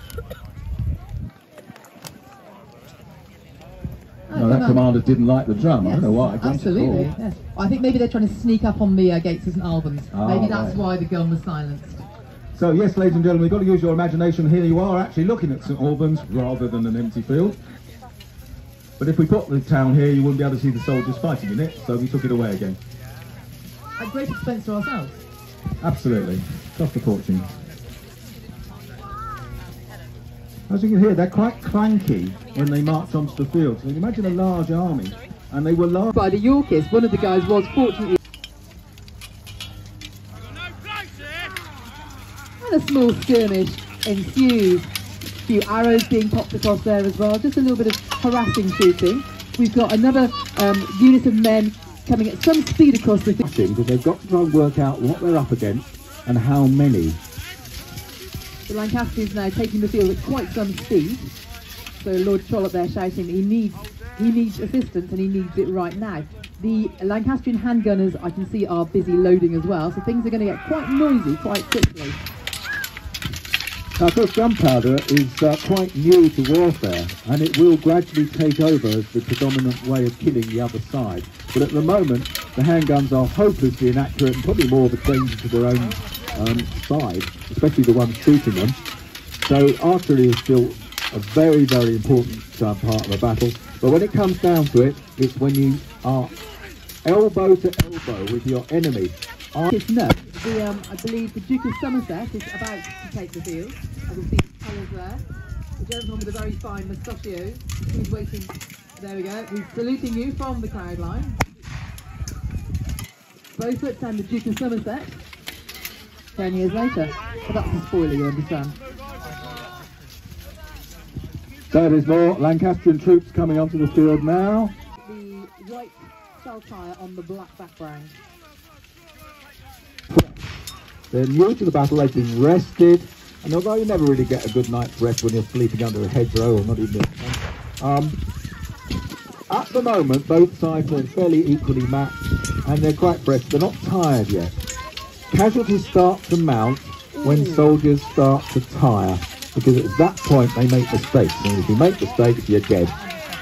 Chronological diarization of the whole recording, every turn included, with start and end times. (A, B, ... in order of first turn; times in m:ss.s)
0:04.3-0:04.9 A
0:04.3-0:07.1 B
0:05.8-0:12.1 A
0:10.1-0:10.8 B
0:12.5-0:17.6 B
0:19.0-0:22.8 B
0:24.0-0:25.2 A
0:25.8-0:27.5 B
0:30.7-0:36.1 B
0:36.1-0:38.2 A
0:42.6-0:53.4 A
0:53.4-0:57.2 B
0:58.7-1:01.4 A
1:02.0-1:12.2 A
1:14.0-1:28.8 B
1:29.5-1:36.3 B
1:37.0-1:39.7 B
1:39.7-1:45.2 A
1:45.8-1:51.4 A
1:53.6-1:55.2 A
1:56.4-1:58.8 A
2:01.7-2:04.7 B
2:05.0-2:08.2 A
2:10.1-2:10.5 B
2:11.1-2:18.2 B
2:19.5-2:24.5 B
2:25.3-2:33.0 B
2:27.2-2:27.8 A